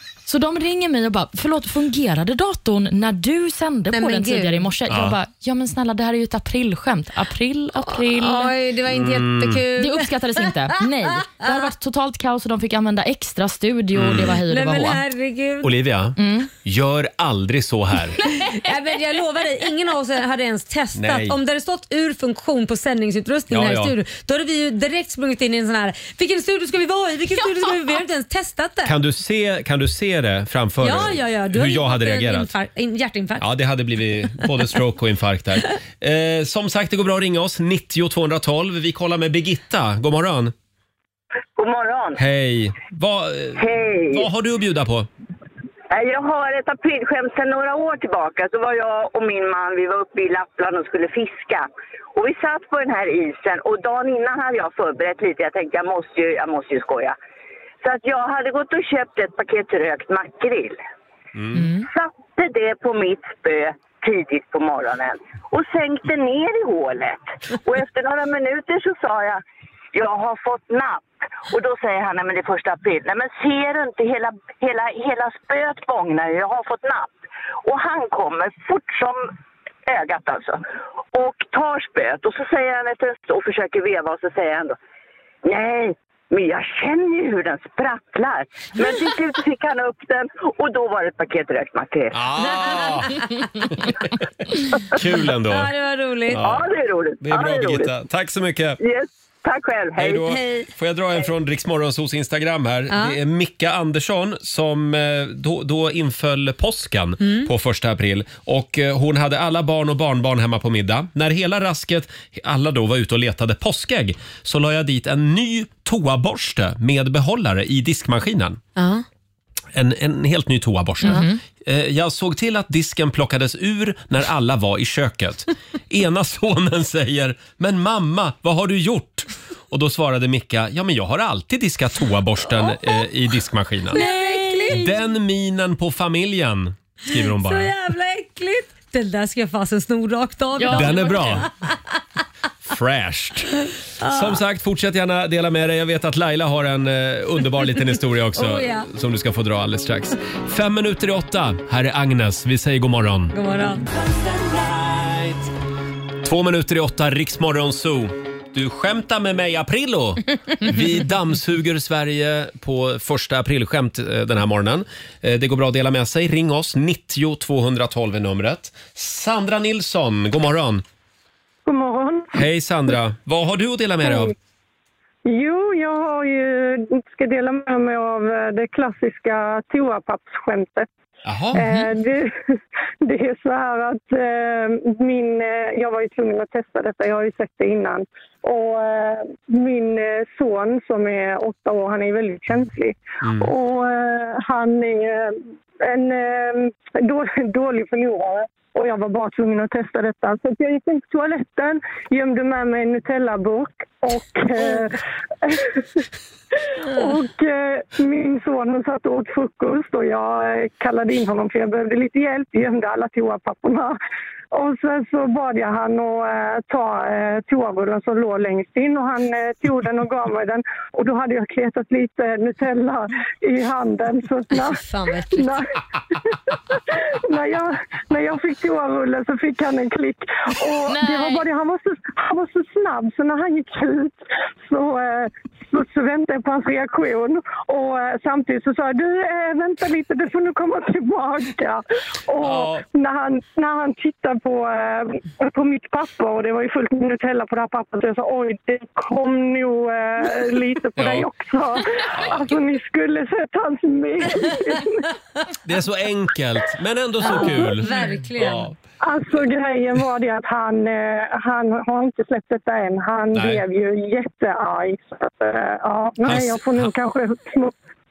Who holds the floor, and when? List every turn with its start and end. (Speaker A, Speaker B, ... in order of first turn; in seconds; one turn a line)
Speaker A: 0.3-8.5
Speaker B: 3.9-4.7
Speaker C: 4.9-5.2
Speaker B: 7.8-10.5
Speaker C: 8.9-9.6
Speaker A: 9.8-15.0
Speaker C: 13.9-14.4
Speaker B: 14.4-15.7
Speaker C: 15.6-18.2
Speaker A: 16.2-16.5
Speaker B: 18.4-28.9
Speaker C: 20.9-21.4
Speaker C: 23.5-23.9
Speaker C: 28.8-32.5
Speaker B: 30.8-33.5
Speaker C: 33.4-40.5
Speaker D: 41.6-42.2
Speaker C: 42.1-45.1
Speaker D: 43.6-44.3
Speaker D: 45.9-57.1
Speaker D: 57.8-60.8
Speaker C: 61.3-61.7
Speaker A: 61.5-61.9
Speaker D: 61.9-69.4
Speaker D: 69.9-79.3
Speaker D: 79.9-80.6
Speaker D: 81.1-84.8
Speaker D: 85.4-92.2
Speaker C: 92.1-93.2
Speaker C: 94.5-95.7
Speaker B: 95.4-96.5
Speaker C: 96.3-96.7
Speaker D: 96.4-97.9
Speaker C: 97.2-98.8
Speaker D: 98.8-100.3
Speaker C: 100.0-118.6
Speaker B: 100.2-100.7
Speaker B: 102.9-103.2
Speaker B: 107.2-107.5
Speaker B: 118.8-119.0
Speaker C: 119.7-134.0
Speaker A: 121.0-121.4
Speaker B: 133.9-135.0
Speaker A: 133.9-134.8
Speaker C: 134.7-137.7
Speaker B: 137.1-141.8
Speaker A: 140.6-141.4
Speaker C: 140.7-141.5
Speaker C: 142.7-153.3
Speaker B: 144.0-144.4
Speaker B: 148.3-148.9
Speaker B: 153.3-153.8
Speaker C: 154.0-155.5
Speaker C: 156.2-170.8
Speaker E: 171.7-172.4
Speaker C: 172.3-174.3
Speaker E: 174.0-174.3
Speaker E: 175.2-180.9
Speaker C: 181.2-181.9
Speaker E: 181.5-182.4
Speaker E: 183.0-206.0
Speaker C: 193.2-193.5
Speaker E: 206.6-214.0
Speaker E: 214.5-225.7
Speaker B: 224.7-225.6
Speaker E: 226.3-255.0
Speaker A: 230.9-231.4
Speaker C: 242.4-242.8
Speaker C: 251.0-251.3
Speaker C: 252.2-252.5
Speaker C: 255.6-258.7
Speaker B: 257.2-258.7
Speaker E: 257.3-257.7
Speaker E: 259.0-267.7
Speaker C: 263.3-263.6
Speaker C: 266.2-266.9